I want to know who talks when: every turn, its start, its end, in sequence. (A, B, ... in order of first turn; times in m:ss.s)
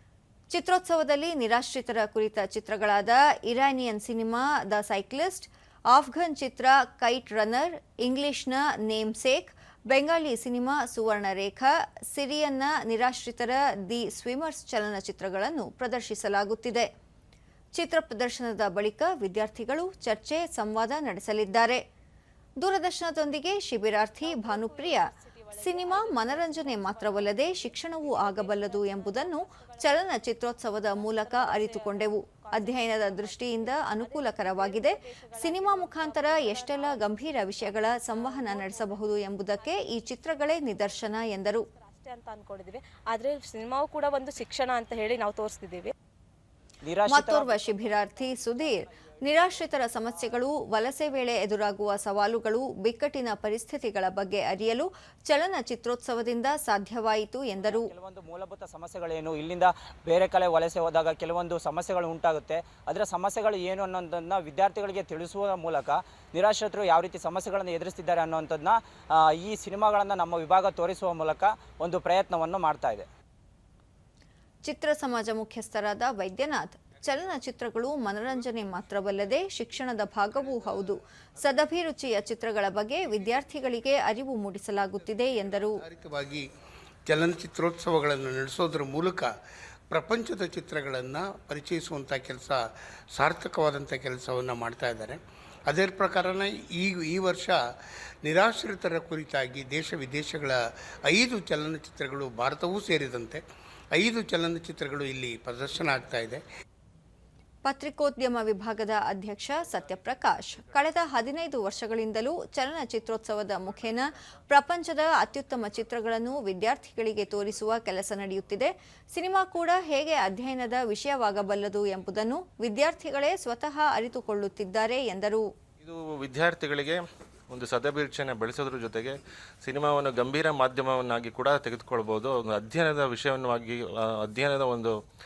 0:00.5-0:16.9 A
0:17.7-0:21.8 A
0:22.6-0:41.6 A
0:24.2-0:45.9 B
0:46.8-0:48.9 C
0:47.1-0:57.9 A
0:57.6-1:13.0 C
1:14.6-1:25.8 A
1:25.3-1:26.5 D
1:27.0-1:29.3 D
1:29.9-1:32.6 D
1:33.2-1:37.6 D
1:38.2-1:43.4 D
1:43.9-1:46.4 D
1:47.6-2:05.4 A
2:05.8-2:14.9 E